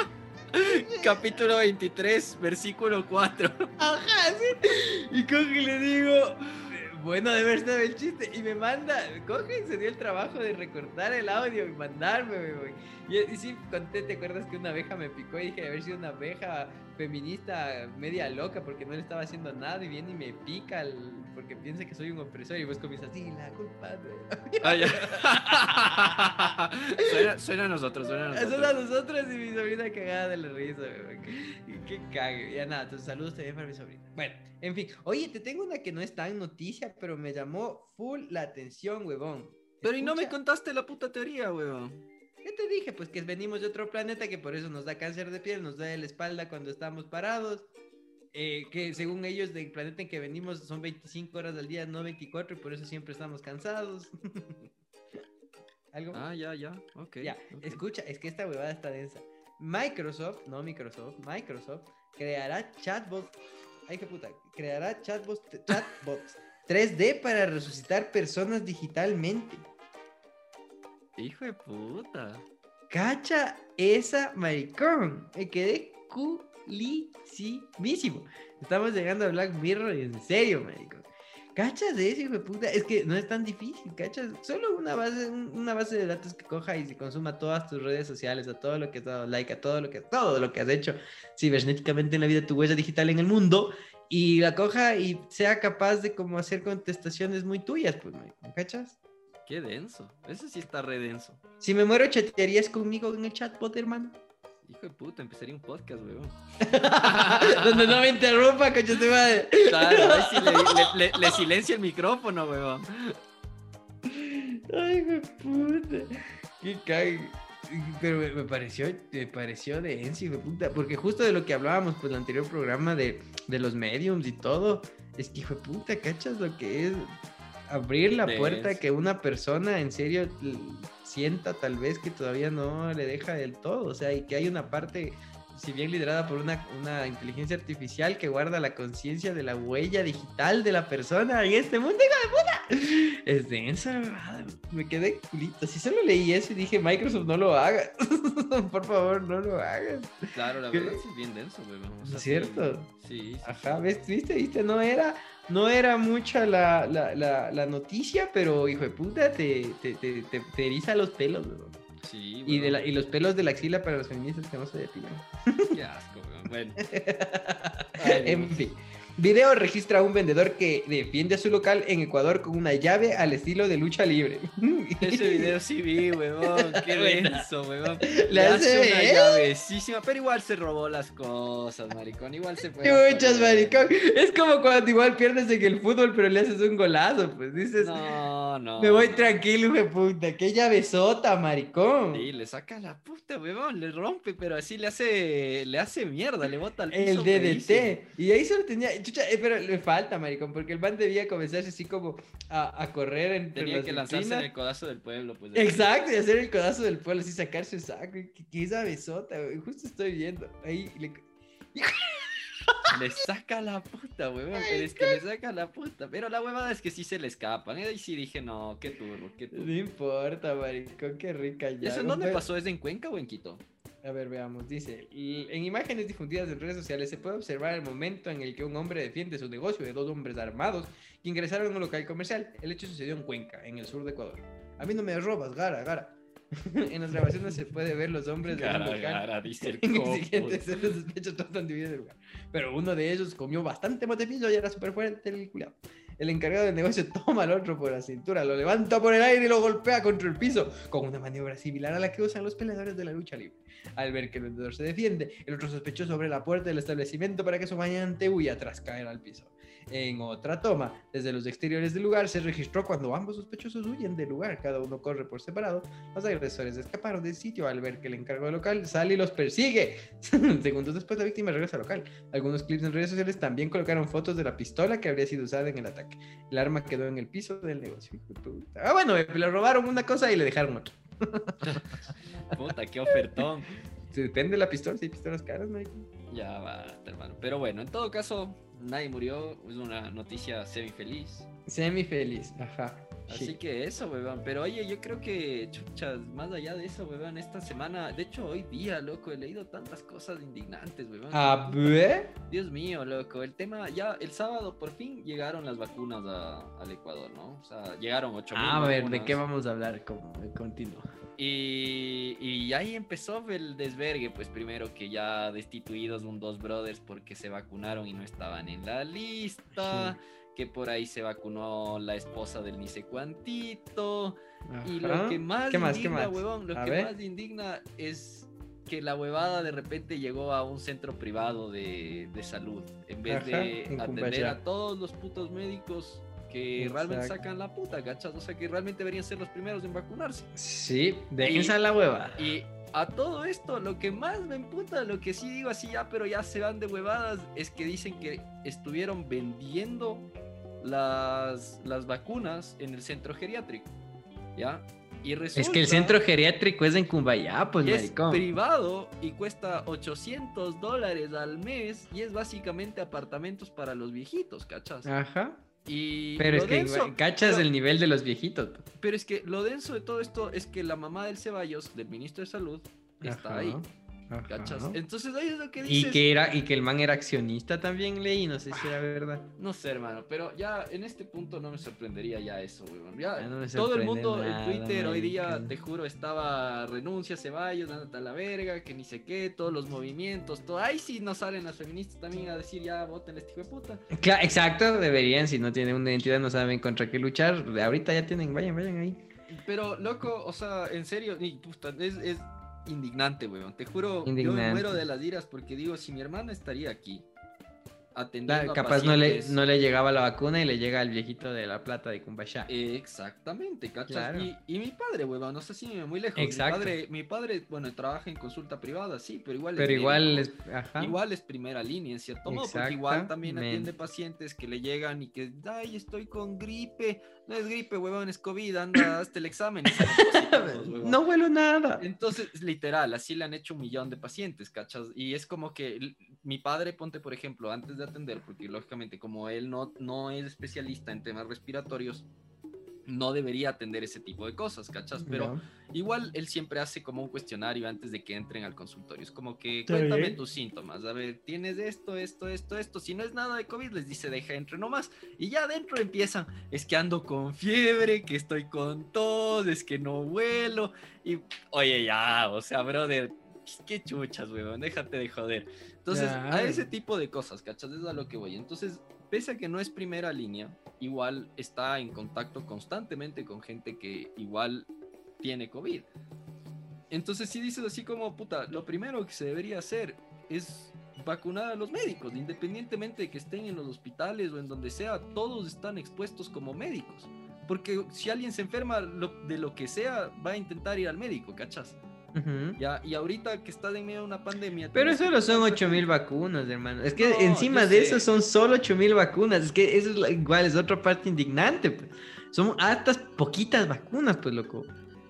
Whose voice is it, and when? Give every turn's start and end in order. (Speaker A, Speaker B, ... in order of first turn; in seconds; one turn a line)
Speaker A: 0.5-3.7
Speaker B: 0.6-1.0
Speaker B: 3.8-27.1
Speaker A: 24.6-28.8
Speaker B: 28.3-40.4
Speaker A: 39.8-42.0
Speaker B: 42.4-47.7
Speaker B: 48.3-54.7
Speaker B: 55.9-56.3
Speaker A: 56.1-57.8
Speaker B: 57.2-63.4
Speaker B: 63.9-69.7
Speaker A: 71.2-72.5
Speaker B: 72.9-99.0
Speaker A: 99.5-101.4
Speaker B: 101.6-104.2
Speaker A: 104.7-108.1
Speaker B: 106.6-111.4
Speaker A: 109.6-113.2
Speaker B: 114.1-127.2
Speaker B: 127.7-151.0
Speaker A: 128.2-128.8
Speaker A: 150.3-153.8
Speaker B: 152.0-152.9
Speaker B: 153.4-161.8
Speaker A: 162.0-162.8
Speaker B: 162.5-165.8
Speaker A: 165.7-166.8
Speaker B: 166.8-175.6
Speaker A: 168.0-168.6
Speaker A: 175.0-183.9
Speaker B: 176.5-177.5
Speaker B: 178.0-179.5
Speaker B: 182.8-188.0
Speaker A: 187.8-189.4
Speaker B: 188.8-192.3
Speaker A: 192.1-198.0
Speaker B: 196.9-204.5
Speaker A: 203.5-205.9
Speaker B: 205.6-212.9
Speaker A: 212.9-219.7
Speaker B: 214.6-215.2
Speaker B: 219.5-222.4
Speaker A: 221.8-223.6
Speaker B: 224.0-281.8
Speaker A: 238.5-240.7
Speaker A: 281.6-283.8
Speaker B: 284.1-286.1
Speaker A: 286.3-291.5
Speaker B: 291.7-293.6
Speaker A: 293.3-301.9
Speaker B: 301.3-302.3
Speaker A: 302.5-309.4
Speaker B: 308.5-311.1
Speaker A: 311.4-340.5
Speaker B: 319.8-320.2
Speaker B: 324.7-327.1
Speaker B: 333.3-334.6
Speaker B: 336.8-337.4
Speaker B: 340.6-342.5
Speaker A: 341.4-341.8
Speaker A: 342.4-350.3
Speaker A: 350.8-353.9
Speaker A: 354.6-356.2
Speaker B: 355.6-358.4
Speaker A: 357.8-365.1
Speaker B: 365.1-365.6
Speaker A: 365.9-367.7
Speaker B: 366.4-368.8
Speaker A: 369.0-373.8
Speaker B: 373.2-375.0
Speaker A: 374.5-376.2
Speaker B: 375.9-379.5
Speaker A: 379.6-394.0
Speaker B: 383.4-385.7
Speaker B: 394.1-399.2
Speaker A: 399.5-407.3
Speaker B: 404.2-405.0
Speaker A: 408.1-409.6
Speaker B: 408.5-412.7
Speaker A: 412.7-431.2
Speaker B: 414.1-414.5
Speaker B: 416.4-417.0
Speaker B: 419.8-421.2
Speaker B: 422.5-423.9
Speaker B: 430.0-432.0
Speaker A: 432.0-442.3
Speaker A: 443.1-474.9
Speaker B: 445.2-445.6
Speaker B: 449.9-450.4
Speaker B: 466.1-466.9
Speaker A: 475.4-476.1
Speaker A: 477.1-492.0
Speaker B: 492.3-492.8
Speaker A: 492.8-496.1
Speaker B: 494.9-504.9
Speaker A: 497.1-498.3